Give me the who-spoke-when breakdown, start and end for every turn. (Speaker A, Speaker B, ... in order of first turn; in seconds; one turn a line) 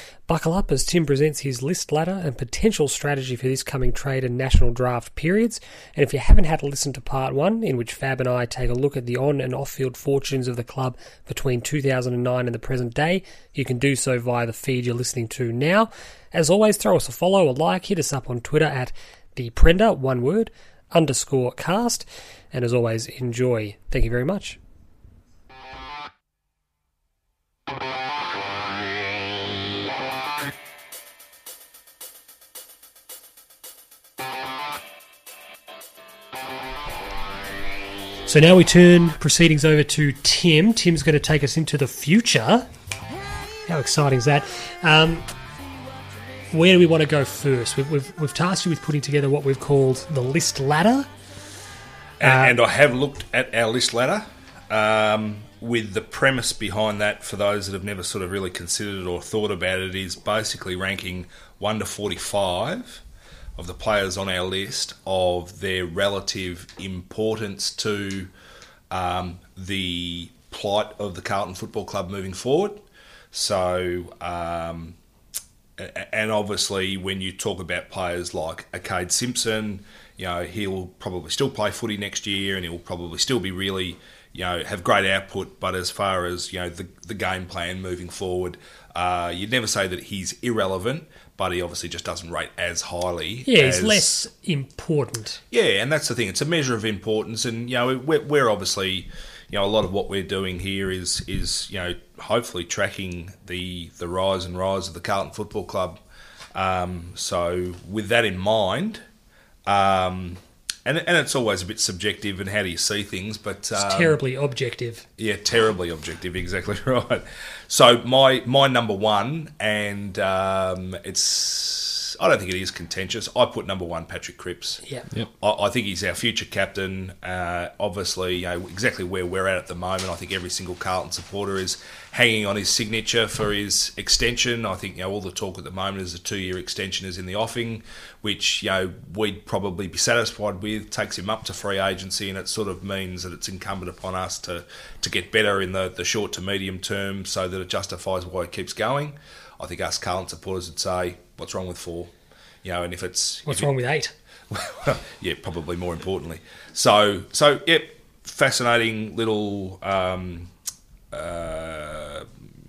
Speaker A: 0.3-24.6
Speaker A: 38.3-42.7
Speaker A: 43.7-45.3
Speaker A: 46.5-51.1
Speaker B: 52.2-63.0
Speaker A: 52.2-52.6
Speaker B: 63.6-68.3
Speaker B: 68.9-75.0
Speaker B: 75.8-94.2
Speaker A: 93.5-95.4
Speaker B: 95.5-106.0
Speaker B: 106.5-109.0
Speaker B: 109.7-114.2
Speaker A: 113.8-115.0
Speaker B: 115.2-124.8
Speaker B: 125.4-152.1
Speaker B: 152.6-153.7
Speaker A: 153.5-154.1
Speaker B: 154.5-160.5
Speaker B: 161.1-162.3